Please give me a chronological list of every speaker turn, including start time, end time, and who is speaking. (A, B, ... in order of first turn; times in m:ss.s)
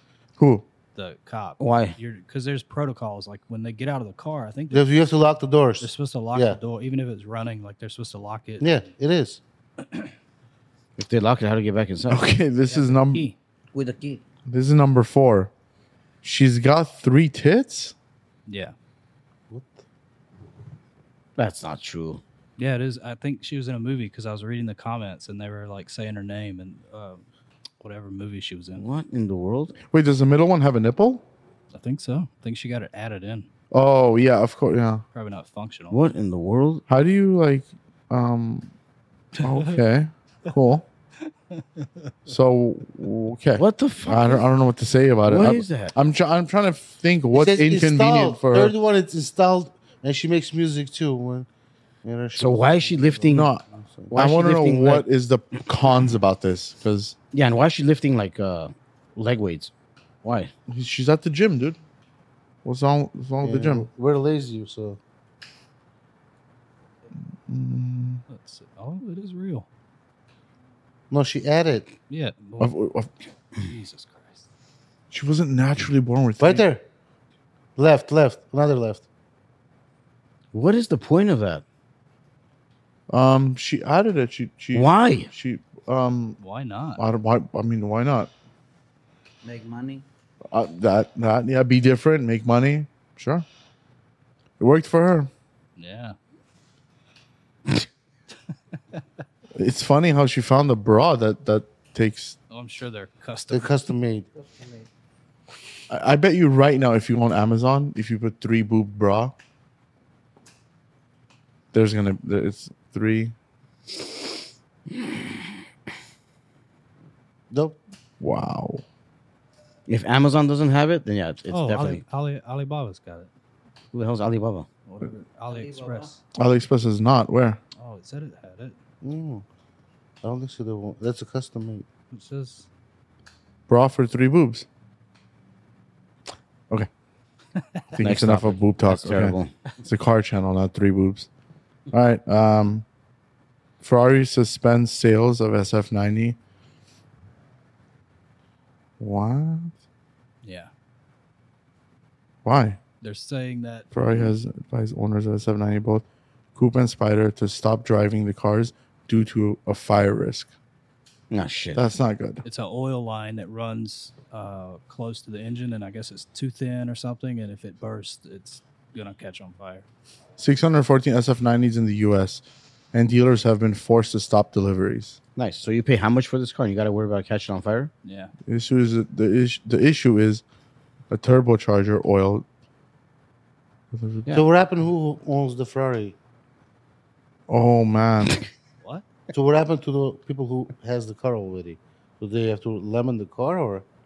0:00.4-0:00.7 A
0:01.0-0:04.9 B
0:01.6-0:02.0 C
0:04.7-0:06.6 D
0:05.8-0:08.8 B
0:08.6-0:09.4 D
0:11.0-0:12.2 C
0:12.1-0:13.3 A
0:12.7-0:13.4 B
0:13.7-0:14.2 E
0:14.5-0:15.5 A
0:16.2-0:18.0 A
0:18.5-0:18.8 B
0:19.5-0:19.8 D
0:21.4-0:22.2 C
0:22.6-0:27.2 B
0:27.8-0:28.8 B
0:28.8-0:29.8 C
0:29.9-0:31.2 A
0:31.7-0:33.5 B
0:33.7-0:35.0 A
0:35.1-0:36.0 B
0:35.9-0:36.8 C
0:36.9-0:38.7 A
0:39.4-0:40.9 A
0:41.6-0:41.9 B
0:42.3-0:48.8 A
0:43.6-0:44.5 C
0:45.3-0:45.9 C
0:47.3-0:51.5 D
0:52.0-0:54.1 D
0:52.4-0:53.5 C
0:53.3-0:53.6 A
0:54.1-0:55.1 C
0:54.1-0:57.2 A
0:57.3-0:59.7 C
1:00.2-1:00.5 C
1:00.7-1:01.8 A
1:02.6-1:03.9 A
1:03.4-1:05.0 D
1:07.5-1:08.2 A
1:08.3-1:09.7 B
1:11.1-1:11.9 D
1:12.1-1:12.8 B
1:12.6-1:13.1 A
1:13.6-1:14.5 B
1:15.1-1:16.7 A
1:16.4-1:16.8 D
1:17.8-1:19.0 D
1:20.5-1:21.6 C
1:23.1-1:26.4 A
1:24.7-1:25.3 C
1:26.4-1:27.0 B
1:27.0-1:28.3 A
1:29.4-1:30.0 E
1:30.5-1:33.5 A
1:34.6-1:35.3 A
1:35.8-1:36.2 B
1:39.6-1:42.4 A
1:42.5-1:43.9 B
1:43.5-1:44.3 D
1:44.4-1:44.9 E
1:45.9-1:49.3 A
1:51.7-1:53.3 A
1:57.5-1:57.8 D
1:58.2-1:58.8 A
1:59.9-2:02.0 C
2:01.5-2:03.3 B
2:03.9-2:04.7 C
2:04.9-2:06.2 B
2:05.5-2:06.2 E
2:06.4-2:07.6 A
2:07.8-2:08.8 B
2:09.0-2:09.4 D
2:10.2-2:11.8 D
2:12.1-2:12.7 B
2:13.7-2:14.7 A
2:17.9-2:21.3 A
2:18.0-2:19.5 C
2:21.9-2:22.8 A
2:23.8-2:26.4 A
2:29.0-2:29.7 A
2:30.4-2:30.7 B
2:32.4-2:32.8 A
2:33.0-2:33.9 B
2:33.9-2:36.0 A
2:36.6-2:40.5 A
2:41.3-2:41.8 C
2:41.8-2:42.4 A
2:42.4-2:49.9 B
2:50.4-2:55.2 A
2:55.4-2:57.9 C
2:58.0-2:58.3 B
2:58.5-3:00.4 A
3:01.1-3:02.5 A
3:03.9-3:04.3 A
3:04.3-3:06.2 D
3:07.5-3:08.4 A
3:09.3-3:13.8 D